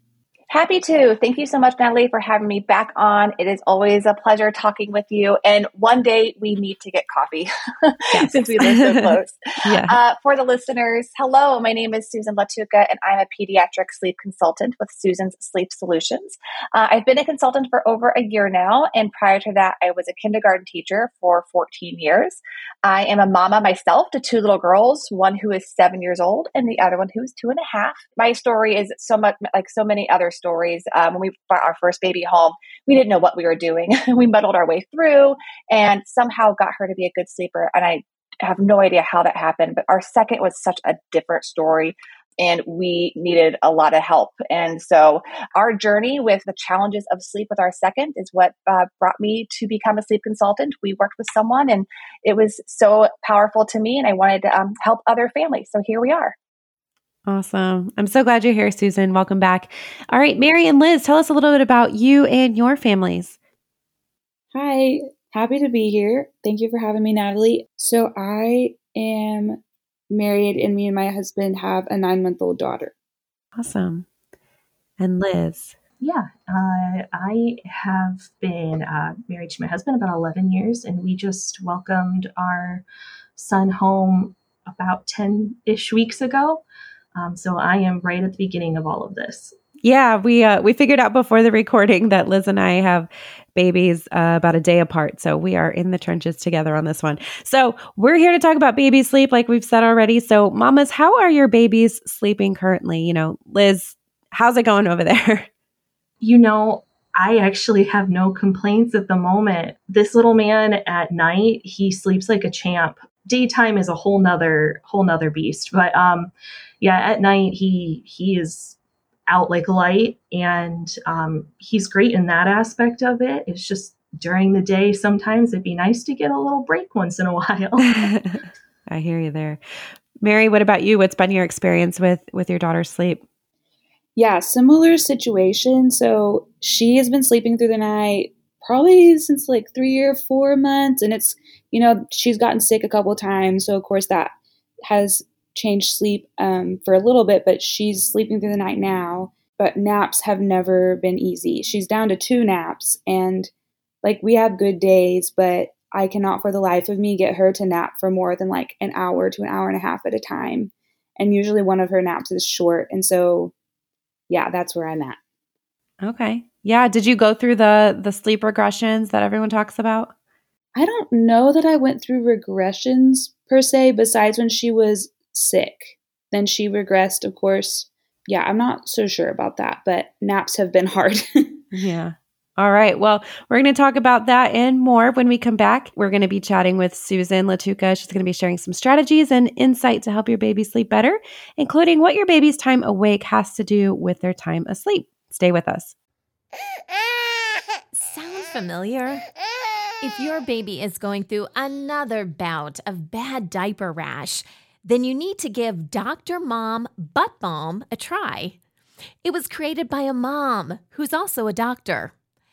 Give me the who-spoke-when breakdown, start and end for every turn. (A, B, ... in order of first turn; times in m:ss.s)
0:00.5-0:56.3 A
0:08.1-0:10.0 B
0:57.3-1:03.4 B
1:04.5-1:09.6 C
1:10.1-1:12.9 C
1:13.6-1:14.0 B
1:15.0-1:15.7 B
1:16.0-1:22.8 D
1:23.4-1:26.6 D
1:27.1-1:29.5 D
1:29.8-1:45.5 B
1:46.2-2:08.1 D
2:07.9-2:09.6 B
2:10.2-2:13.2 B
2:14.2-2:33.5 C
2:34.0-2:43.5 C
2:44.3-2:45.2 C
2:46.0-2:50.1 B
2:50.7-3:01.6 C
3:01.7-3:15.9 B
3:17.9-3:19.2 E
3:20.0-3:28.6 E
3:29.2-3:32.1 E